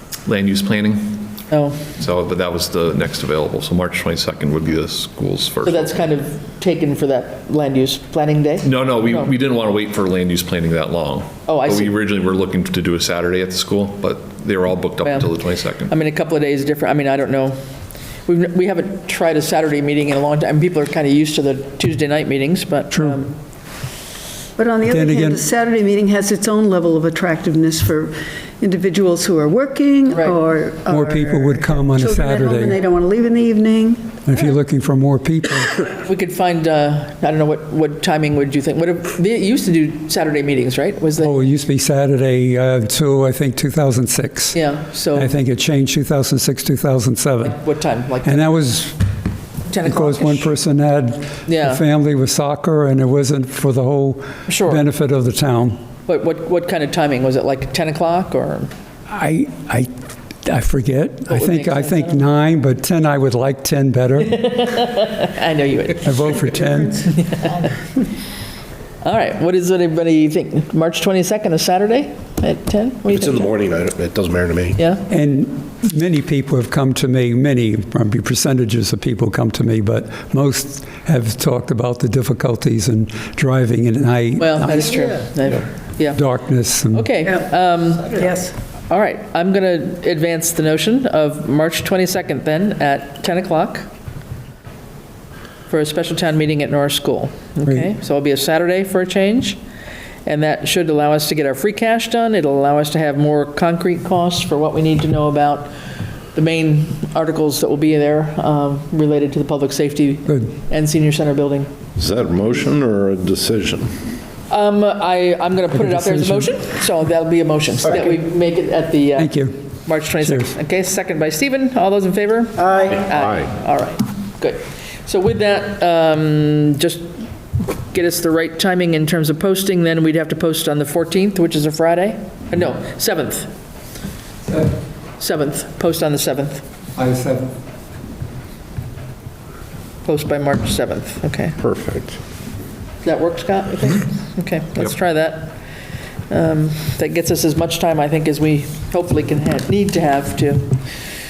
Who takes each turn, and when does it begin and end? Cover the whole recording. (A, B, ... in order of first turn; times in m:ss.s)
0:00.3-0:01.3 A
0:01.5-0:01.8 B
0:02.0-0:05.9 A
0:05.6-0:09.3 B
0:08.6-0:15.9 A
0:11.5-0:11.9 B
0:15.0-0:15.3 B
0:15.9-0:17.6 B
0:18.3-0:23.4 B
0:22.9-0:23.2 C
0:24.6-0:34.2 D
0:24.9-0:25.4 C
0:30.1-0:30.4 B
0:30.9-0:32.8 C
0:34.2-0:35.8 C
0:36.0-0:41.4 B
0:41.2-0:44.6 C
0:44.5-0:45.4 B
0:45.1-0:47.6 C
0:47.4-0:48.5 B
0:48.2-0:49.0 C
0:49.7-0:50.5 B
0:49.8-0:55.8 C
0:51.5-0:51.8 B
0:54.5-0:54.8 B
0:56.1-0:58.7 B
0:59.1-0:59.9 C
1:00.4-1:04.5 C
1:01.3-1:02.2 B
1:04.3-1:06.4 B
1:06.0-1:07.1 C
1:06.5-1:07.7 D
1:07.1-1:07.7 B
1:09.0-1:13.5 B
1:13.1-1:14.8 E
1:14.8-1:15.0 B
1:15.1-1:25.1 C
1:24.4-1:26.2 B
1:26.2-1:27.3 C
1:26.9-1:28.4 B
1:28.1-1:28.5 D
1:28.9-1:33.9 B
1:35.7-1:39.6 B
1:40.2-1:45.7 B
1:46.3-1:51.7 B
1:52.0-1:53.9 E
1:54.5-2:07.1 B
1:55.7-1:56.5 C
1:59.2-1:59.6 C
2:00.2-2:00.5 C
2:02.7-2:03.5 E
2:07.8-2:13.5 B
2:15.2-2:16.6 B
2:17.0-2:17.5 C
2:20.0-2:21.6 B
2:21.6-2:22.2 E
2:23.0-2:25.6 B
2:26.3-2:30.8 B